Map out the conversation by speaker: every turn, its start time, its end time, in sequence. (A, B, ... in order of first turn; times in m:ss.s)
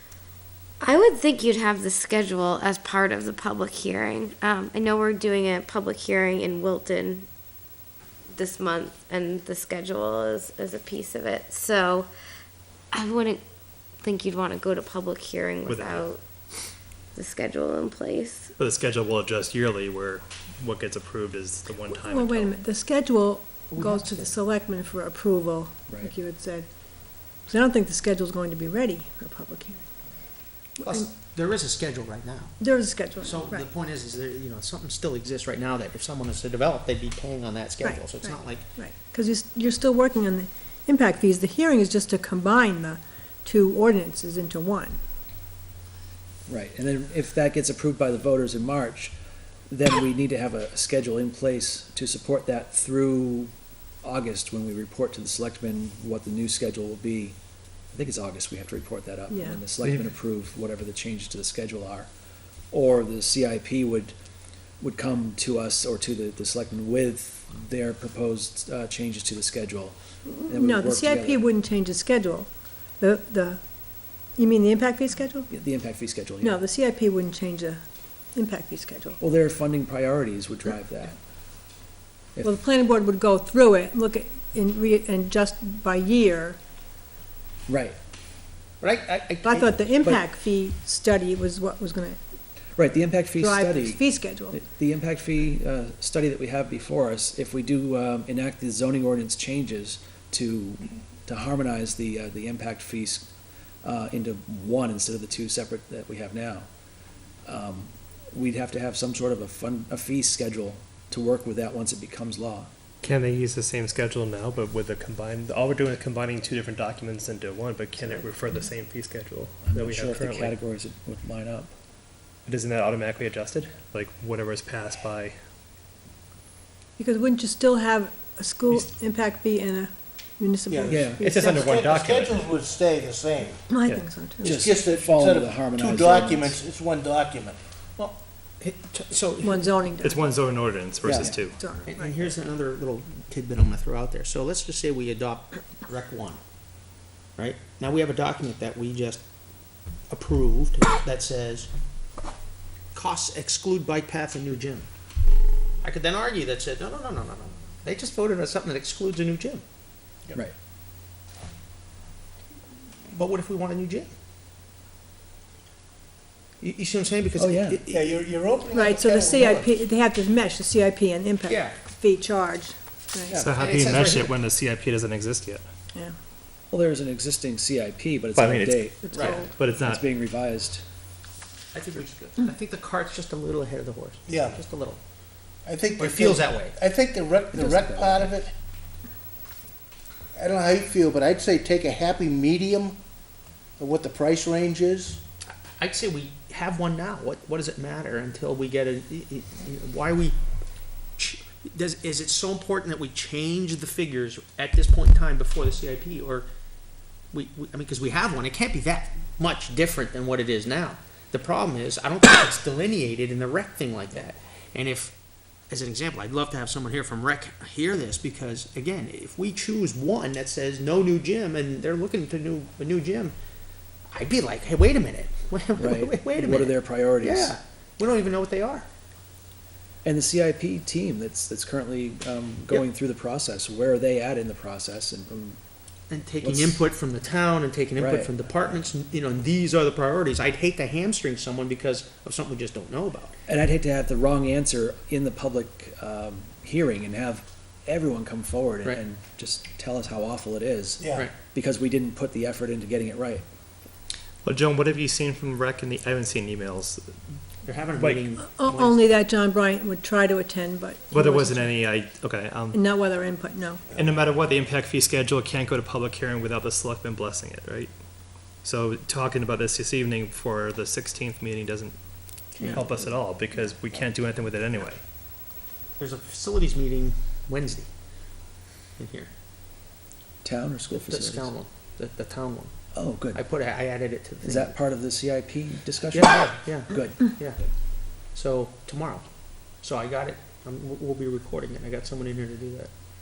0:00.8-0:07.3 A
0:08.3-0:12.1 A
0:12.9-0:13.4 A
0:14.0-0:16.2 A
0:15.6-0:16.1 B
0:17.1-0:18.5 A
0:18.6-0:22.5 B
0:21.9-0:26.7 C
0:23.7-0:24.3 D
0:27.4-0:29.9 C
0:30.8-0:31.1 C
0:30.8-0:32.6 D
0:32.6-0:33.7 C
0:33.2-0:38.6 D
0:37.8-0:45.0 C
0:46.5-0:49.1 E
0:49.7-0:53.5 E
0:54.0-0:57.4 E
0:57.9-1:02.1 E
0:59.3-0:59.6 C
1:02.7-1:04.1 E
1:04.8-1:10.0 E
1:10.4-1:12.5 C
1:10.5-1:11.5 E
1:13.0-1:13.6 C
1:14.4-1:15.5 C
1:15.5-1:16.6 E
1:16.4-1:17.8 C
1:18.3-1:19.2 C
1:19.2-1:21.2 E
1:22.4-1:26.6 C
1:27.7-1:28.0 E
1:28.8-1:29.8 D
1:29.4-1:32.2 C
1:32.8-1:43.3 E
1:33.4-1:34.6 C
1:43.8-1:46.7 E
1:47.4-1:52.7 E
1:53.0-2:00.5 B
1:59.6-2:01.7 E
2:02.4-2:05.3 B
2:07.0-2:11.7 C
2:10.7-2:13.6 F
2:10.9-2:11.2 E
2:11.2-2:12.4 B
2:13.7-2:14.6 C
2:14.4-2:16.5 E
2:14.4-2:17.6 F
2:18.0-2:19.8 D
2:19.4-2:20.3 C
2:20.0-2:21.6 B
2:21.1-2:22.3 C
2:21.8-2:26.4 D
2:27.4-2:29.2 D
2:30.1-2:31.7 D
2:32.9-2:34.9 D
2:35.8-2:39.6 D
2:43.1-2:44.1 D
2:46.6-2:48.2 D
2:47.3-2:47.8 E
2:47.9-2:49.7 F
2:48.7-2:53.4 C
2:51.5-2:51.8 D
2:53.3-2:54.0 F
2:53.4-2:55.6 B
2:53.6-2:54.4 D
2:56.7-3:00.8 E
2:58.3-3:00.1 B
2:59.1-2:59.4 C
2:59.1-2:59.4 D
3:01.7-3:05.0 D
3:04.3-3:04.6 F
3:05.6-3:08.5 F
3:06.0-3:06.8 D
3:07.5-3:08.3 E
3:10.4-3:13.0 F
3:13.8-3:15.2 F
3:15.6-3:20.4 D
3:21.2-3:26.5 D
3:27.3-3:35.1 D
3:35.7-3:43.4 D
3:44.1-3:48.9 D
3:45.8-3:47.6 E
3:50.0-3:55.6 E
3:56.1-4:03.3 D
3:56.4-3:56.8 E
3:58.0-3:58.4 E
4:03.5-4:13.4 E
4:11.0-4:11.3 F
4:14.4-4:17.2 B
4:17.6-4:19.1 D
4:18.0-4:18.2 B
4:18.4-4:21.7 C
4:21.1-4:22.8 B
4:22.7-4:23.8 C
4:24.0-4:27.9 B
4:28.6-4:32.0 B
4:32.5-4:32.8 D
4:32.6-4:35.0 B
4:32.6-4:33.0 C
4:36.0-4:37.9 D
4:39.0-4:39.3 D
4:40.4-4:41.5 E
4:40.9-4:42.7 D
4:42.9-4:43.4 E
4:43.3-4:44.7 D
4:44.4-4:47.3 E
4:46.1-4:47.6 D
4:48.3-4:49.2 D
4:49.8-4:52.9 D